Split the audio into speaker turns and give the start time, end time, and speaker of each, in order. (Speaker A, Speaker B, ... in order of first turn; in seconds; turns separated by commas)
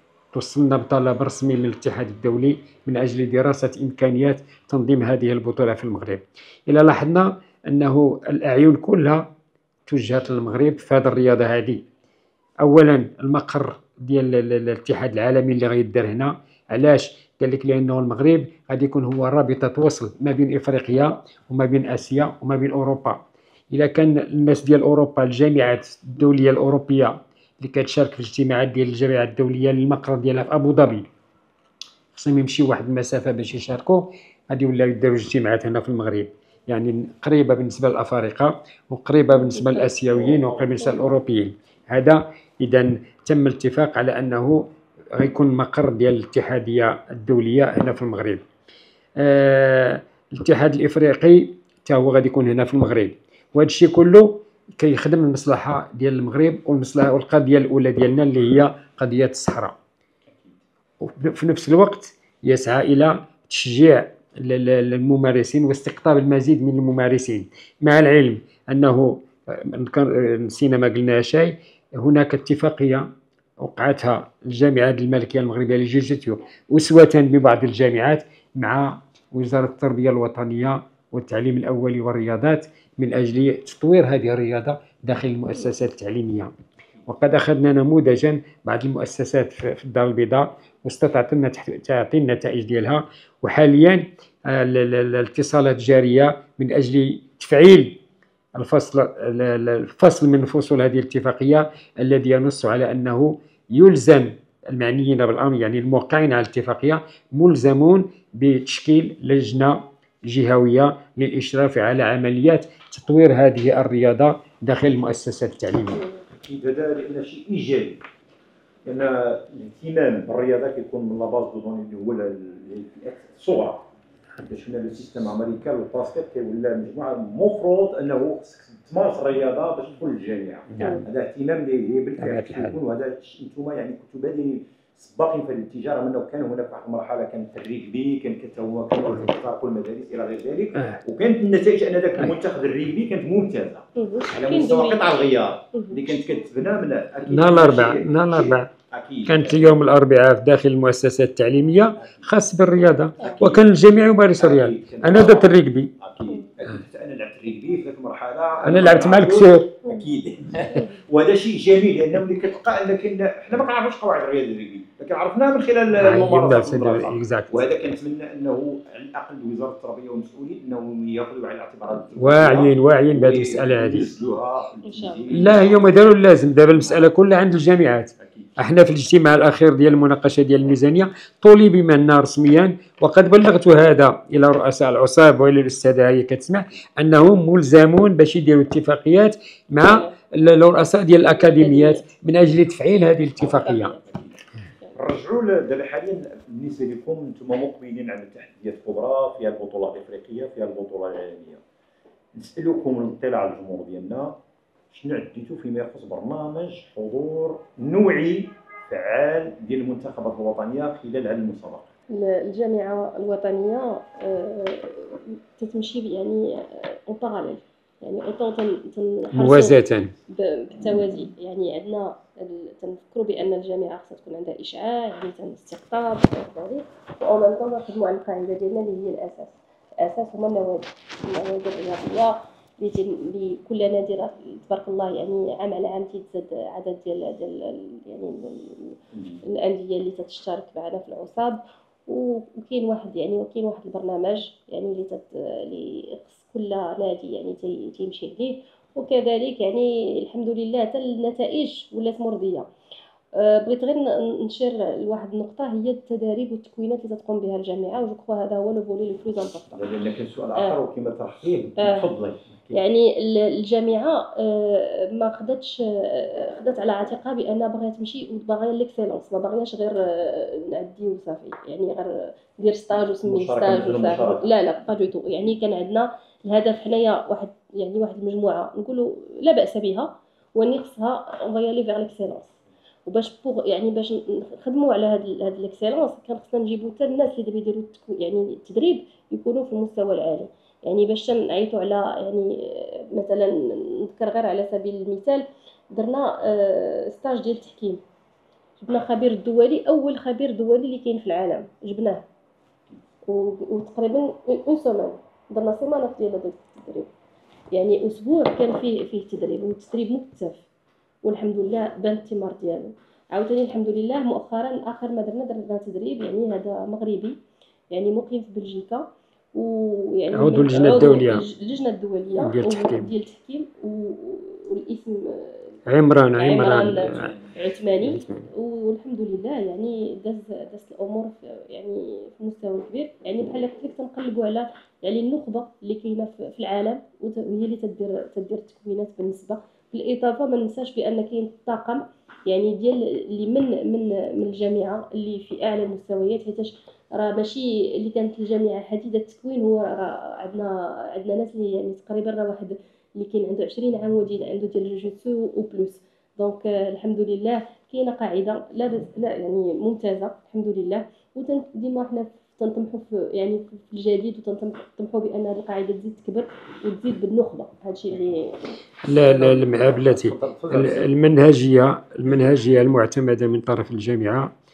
Speaker A: 0.3-9.2, Speaker A: 9.9-11.8, Speaker A: 12.6-23.2, Speaker A: 23.7-31.1, Speaker A: 32.1-44.6, Speaker B: 39.4-39.9, Speaker C: 40.1-41.0, Speaker A: 45.1-48.4, Speaker A: 49.2-59.8, Speaker C: 60.3-60.6, Speaker A: 61.0-73.1, Speaker A: 73.6-86.5, Speaker A: 87.0-98.0, Speaker A: 98.5-116.0, Speaker B: 115.9-116.2, Speaker C: 116.3-118.0, Speaker C: 118.8-123.9, Speaker C: 124.5-149.8, Speaker A: 130.7-131.0, Speaker B: 130.8-131.0, Speaker A: 132.2-132.8, Speaker A: 140.7-141.0, Speaker B: 143.9-145.1, Speaker A: 147.3-148.7, Speaker A: 149.2-155.9, Speaker C: 152.0-152.3, Speaker C: 153.2-153.8, Speaker C: 154.4-175.9, Speaker A: 158.6-159.7, Speaker B: 160.7-161.0, Speaker A: 165.9-167.6, Speaker A: 172.1-174.1, Speaker B: 174.8-175.2, Speaker A: 175.3-193.9, Speaker C: 178.2-178.6, Speaker B: 189.8-190.1, Speaker B: 191.4-192.1, Speaker B: 193.5-194.0, Speaker C: 194.9-201.6, Speaker C: 202.3-204.4, Speaker C: 204.9-211.9, Speaker B: 212.1-252.7, Speaker A: 219.3-220.1, Speaker C: 239.1-239.4, Speaker B: 253.3-259.8, Speaker C: 259.7-262.8, Speaker B: 261.8-262.0, Speaker B: 262.7-282.5, Speaker C: 273.2-274.5, Speaker B: 283.1-298.0, Speaker B: 298.8-302.2, Speaker B: 303.3-307.1, Speaker B: 307.7-310.6, Speaker B: 311.2-317.4, Speaker B: 317.9-325.8, Speaker A: 320.3-321.4, Speaker A: 322.4-323.1, Speaker A: 325.9-327.3, Speaker B: 326.4-368.6, Speaker A: 328.0-328.5, Speaker A: 369.0-374.5, Speaker C: 369.1-371.0